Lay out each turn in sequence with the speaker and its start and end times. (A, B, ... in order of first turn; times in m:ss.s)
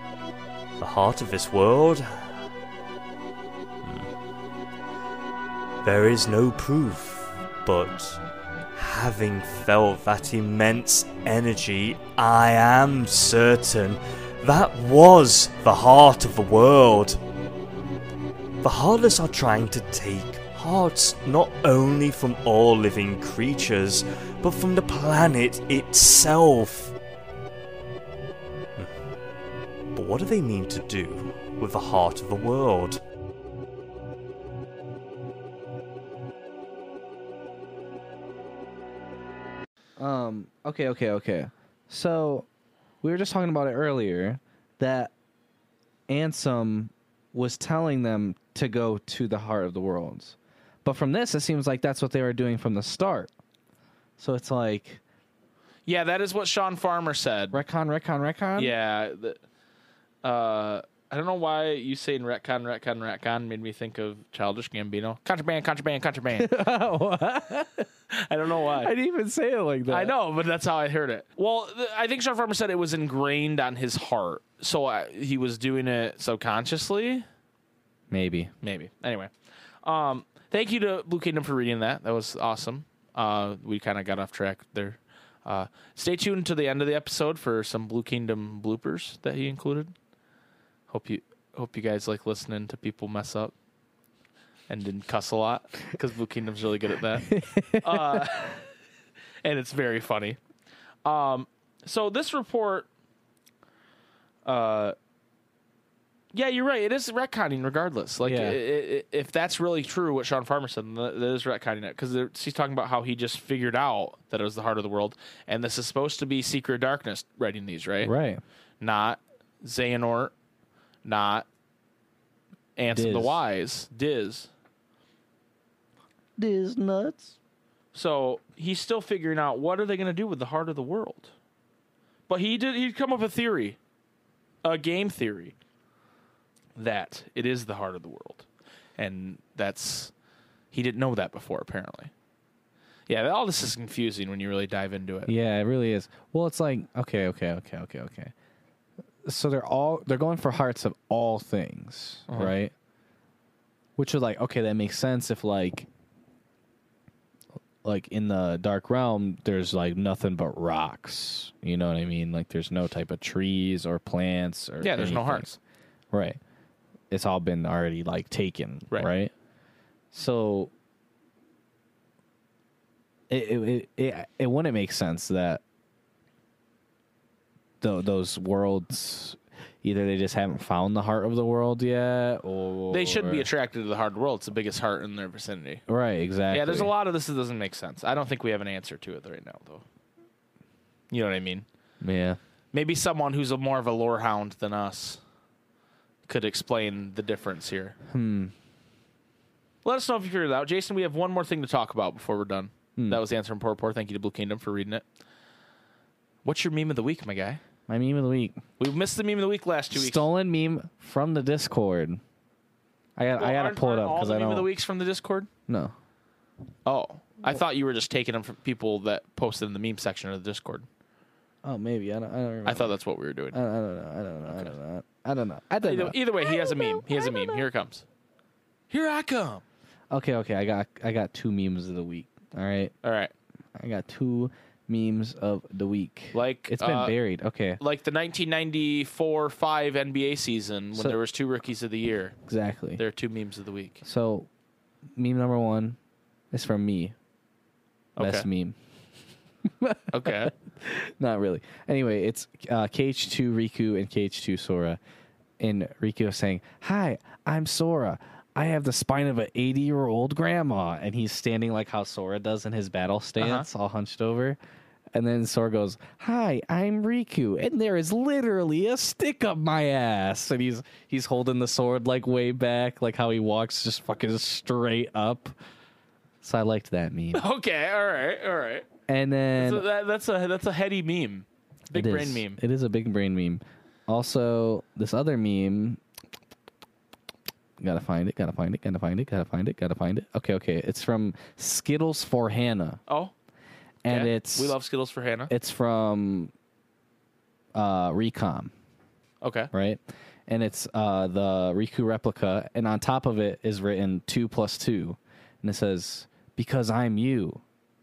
0:00.8-0:02.2 A
0:03.8-0:04.1 A
0:05.8-0:08.2 A
0:08.8-0:17.2 A
0:18.6-0:26.9 A
0:29.9-0:33.0 A
0:40.0-0:42.5 B
0:43.0-0:45.1 B
0:46.1-0:53.3 B
0:54.2-0:55.0 B
0:55.9-0:57.6 C
0:57.5-0:58.8 B
0:58.6-0:59.4 C
1:00.2-1:06.5 C
1:06.4-1:07.9 B
1:08.1-1:08.9 C
1:08.8-1:10.1 B
1:09.9-1:17.2 C
1:18.1-1:18.5 B
1:18.6-1:19.3 C
1:19.8-1:29.9 C
1:30.9-1:33.5 C
1:34.7-1:38.6 C
1:37.2-1:38.4 B
1:39.4-1:40.4 C
1:41.0-1:42.9 C
1:44.4-1:45.0 C
1:46.3-1:58.1 C
1:48.2-1:48.6 B
1:58.0-1:58.4 B
1:58.8-2:00.3 C
2:01.0-2:01.5 C
2:02.8-2:04.5 C
2:02.9-2:03.4 B
2:06.4-2:07.4 B
2:07.9-2:11.3 C
2:12.3-2:13.8 C
2:14.6-2:15.6 C
2:16.8-2:18.5 C
2:19.0-2:20.1 C
2:20.7-2:22.1 C
2:23.1-2:25.3 C
2:25.3-2:28.3 B
2:29.2-2:32.7 B
2:34.0-2:35.9 B
2:37.8-2:45.5 B
2:44.8-2:45.6 C
2:46.1-2:46.4 B
2:47.1-2:49.3 B
2:50.1-2:50.7 B
2:53.3-2:55.6 B
2:57.8-3:03.5 B
3:02.9-3:05.8 C
3:05.9-3:06.9 B
3:06.5-3:09.8 C
3:11.1-3:11.7 C
3:12.0-3:12.4 B
3:12.7-3:15.2 C
3:16.3-3:18.0 C
3:18.1-3:18.5 B
3:19.8-3:25.0 C
3:23.0-3:23.2 B
3:26.4-3:27.6 C
3:27.9-3:28.6 B
3:28.8-3:30.3 C
3:29.9-3:32.2 B
3:33.2-3:34.7 B
3:33.4-3:35.5 C
3:35.7-3:35.9 B
3:36.8-3:40.9 C
3:41.6-3:42.9 B
3:42.6-3:43.6 C
3:43.5-3:47.6 B
3:45.8-3:48.0 C
3:48.9-3:49.6 C
3:50.1-3:52.9 B
3:53.0-3:53.3 C
3:53.8-3:57.8 B
3:56.3-3:57.2 C
3:57.8-4:02.4 C
4:02.5-4:03.0 B
4:03.0-4:04.0 C
4:04.0-4:04.5 B
4:05.2-4:06.0 B
4:06.5-4:07.2 B
4:08.2-4:08.5 C
4:08.2-4:08.8 B
4:09.6-4:15.0 B
4:10.1-4:10.5 C
4:15.6-4:24.6 B
4:23.4-4:23.7 C
4:25.1-4:35.6 B
4:36.4-4:37.5 B
4:37.4-4:38.9 C
4:39.1-4:39.9 B
4:39.6-4:42.6 C
4:41.9-4:46.0 B
4:47.8-4:53.0 B
4:53.1-4:53.3 C
4:54.0-4:54.8 B
4:54.1-4:55.5 C
4:55.5-4:56.5 B
4:57.7-4:58.7 B
4:59.4-4:59.7 C
4:59.7-5:07.6 B